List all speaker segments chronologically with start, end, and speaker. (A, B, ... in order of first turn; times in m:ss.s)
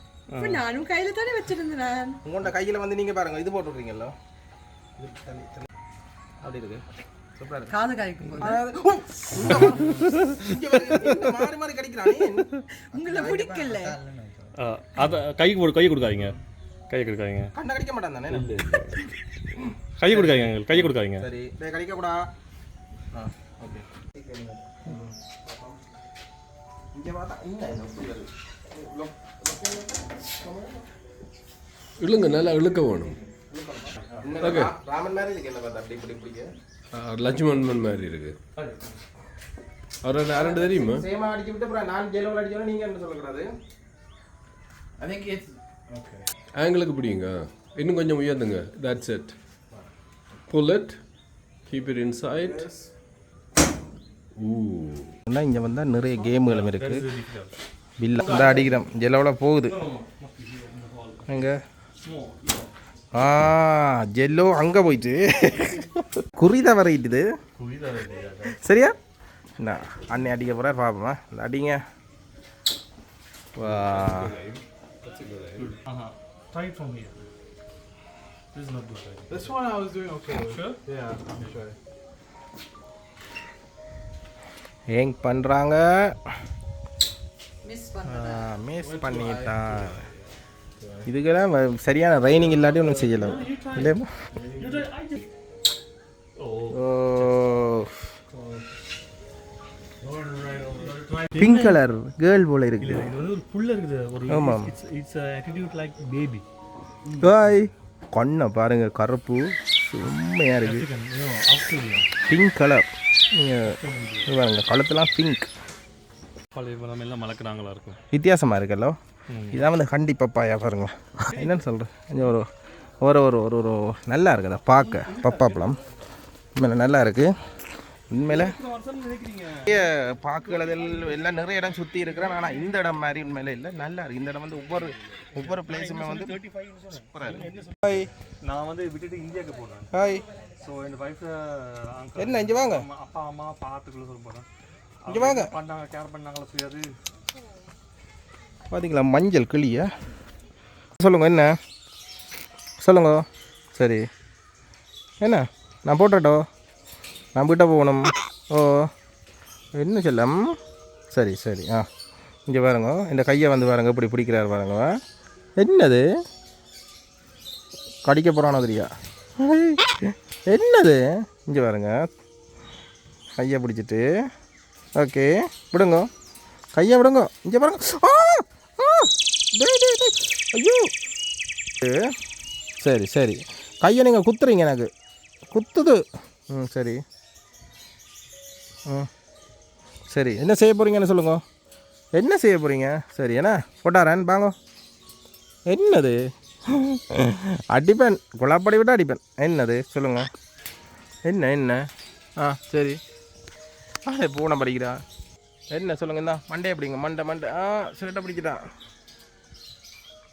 0:00.3-0:00.6 A
0:00.4-0:02.2 B
0:02.2-0:04.1 C
0:05.0-0:05.6 C
0:06.4-0:06.8 C
0:07.4-0:07.7 C
0:07.7-0:08.6 B
0:08.4-0:14.5 C
0:09.6-0:10.3 A
0:12.9-0:14.0 B
0:14.6-0:16.3 A
0:16.9-0:17.5 A
0:17.5-0:18.5 C
0:18.3-0:19.0 D
0:20.0-0:21.3 A
0:20.1-0:22.2 C
0:23.1-0:25.7 C
0:26.9-0:30.8 C
0:32.0-0:33.2 D
0:33.4-0:36.5 C
0:34.4-0:34.7 D
0:36.9-0:38.4 D
0:38.6-0:39.0 A
0:40.0-0:41.0 D
0:40.4-0:43.5 C
0:45.0-0:46.2 E
0:46.5-0:49.3 D
0:50.5-0:51.0 D
0:51.7-0:52.7 D
0:52.4-0:52.8 E
0:54.4-0:55.1 D
0:55.3-0:57.0 C
0:56.2-0:57.5 A
0:58.0-0:59.8 C
0:58.2-0:58.6 A
0:59.7-1:01.4 A
1:01.3-1:01.6 C
1:02.0-1:02.6 A
1:03.1-1:07.3 C
1:07.6-1:08.6 A
1:08.4-1:09.0 C
1:09.6-1:11.8 C
1:13.6-1:14.3 C
1:13.6-1:15.8 D
1:15.6-1:17.2 A
1:18.5-1:19.5 A
1:19.3-1:21.8 E
1:20.4-1:20.8 A
1:24.9-1:26.2 C
1:27.6-1:28.5 B
1:28.0-1:30.0 C
1:28.8-1:30.0 E
1:31.0-1:34.1 C
1:32.9-1:34.0 A
1:34.6-1:35.2 A
1:36.4-1:37.3 A
1:36.7-1:38.0 C
1:38.3-1:38.6 E
1:40.0-1:40.9 E
1:40.8-1:41.8 A
1:41.4-1:43.1 C
1:42.8-1:46.4 A
1:44.3-1:44.7 C
1:47.2-1:50.9 C
1:50.6-1:52.1 A
1:52.3-1:55.5 C
1:53.6-1:54.3 A
1:56.5-1:58.0 A
1:58.1-1:59.0 C
1:59.3-1:59.6 A
1:59.5-2:02.5 C
2:01.3-2:01.6 A
2:03.0-2:05.8 C
2:04.8-2:05.8 A
2:06.6-2:07.4 C
2:08.1-2:08.6 C
2:08.2-2:09.8 A
2:09.6-2:16.4 C
2:10.5-2:11.2 A
2:15.4-2:19.9 A
2:17.1-2:18.1 C
2:19.9-2:20.2 C
2:20.6-2:24.5 A
2:22.2-2:22.8 C
2:25.0-2:26.9 A
2:25.1-2:25.5 C
2:28.7-2:29.9 C
2:31.0-2:31.6 C
2:32.8-2:34.1 C
2:35.2-2:36.4 C
2:37.3-2:38.9 C
2:39.8-2:40.6 C
2:41.1-2:41.9 C
2:42.5-2:45.0 C
2:45.6-2:46.0 C
2:48.0-2:52.1 C
2:53.4-2:54.3 C
2:55.0-2:56.1 C
2:56.7-3:00.9 C
3:01.8-3:02.1 C
3:02.8-3:04.9 C
3:05.5-3:07.0 C
3:10.1-3:11.4 C
3:12.2-3:14.5 C
3:15.7-3:20.3 C
3:21.2-3:21.9 C
3:22.4-3:23.0 C
3:24.0-3:25.0 C
3:25.7-3:28.6 C